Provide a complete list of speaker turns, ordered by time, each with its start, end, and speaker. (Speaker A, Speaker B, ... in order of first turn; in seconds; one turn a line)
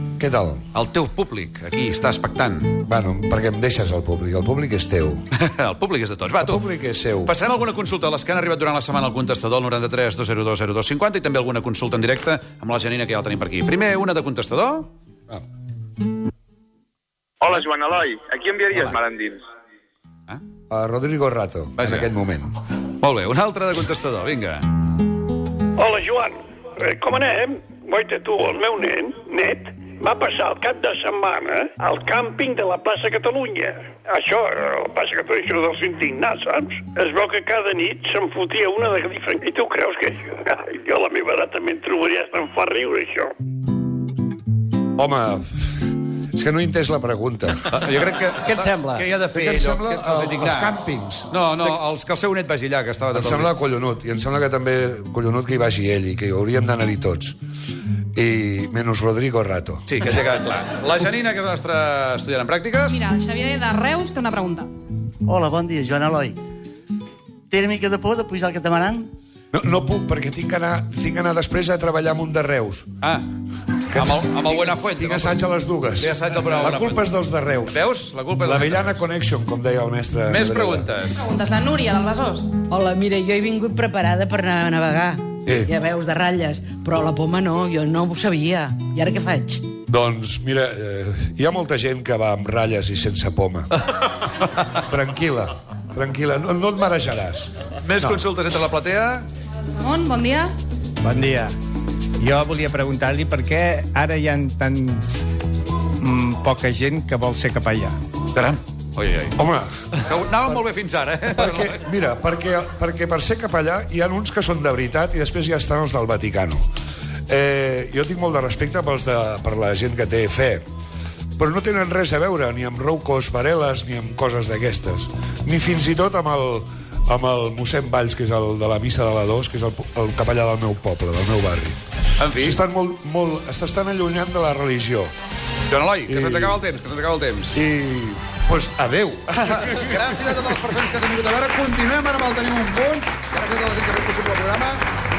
Speaker A: 0.2-0.6
Speaker B: 0.7-2.8
Speaker A: 2.9-5.2
Speaker B: 5.3-6.6
Speaker A: 6.4-7.3
Speaker B: 7.2-14.9
Speaker C: 17.4-19.4
Speaker A: 20.7-22.5
Speaker B: 21.8-22.1
Speaker B: 23.0-24.7
Speaker D: 25.8-43.3
Speaker A: 45.0-47.8
Speaker B: 47.7-53.5
Speaker A: 49.3-51.7
Speaker A: 53.1-57.4
Speaker A: 58.1-59.9
Speaker B: 59.9-63.0
Speaker E: 62.9-64.7
Speaker F: 65.2-66.4
Speaker F: 67.5-69.1
Speaker A: 69.5-72.9
Speaker B: 73.0-73.3
Speaker A: 73.9-77.8
Speaker B: 73.9-75.4
Speaker B: 76.0-77.0
Speaker B: 77.7-79.0
Speaker A: 78.4-80.9
Speaker B: 80.3-81.3
Speaker E: 81.2-82.5
Speaker G: 82.6-89.6
Speaker A: 85.5-85.7
Speaker A: 89.9-93.7
Speaker A: 94.7-98.2
Speaker B: 97.8-99.3
Speaker E: 99.8-100.5
Speaker H: 101.0-101.5
Speaker H: 102.2-105.1
Speaker H: 106.0-108.0
Speaker B: 108.3-109.4
Speaker A: 109.4-109.7
Speaker B: 110.0-111.8
Speaker A: 111.3-116.6
Speaker A: 117.3-120.7
Speaker A: 121.4-131.8
Speaker B: 132.2-132.6
Speaker A: 132.3-135.1
Speaker B: 135.7-137.6
Speaker A: 136.1-136.6
Speaker A: 137.5-140.0
Speaker B: 139.4-144.8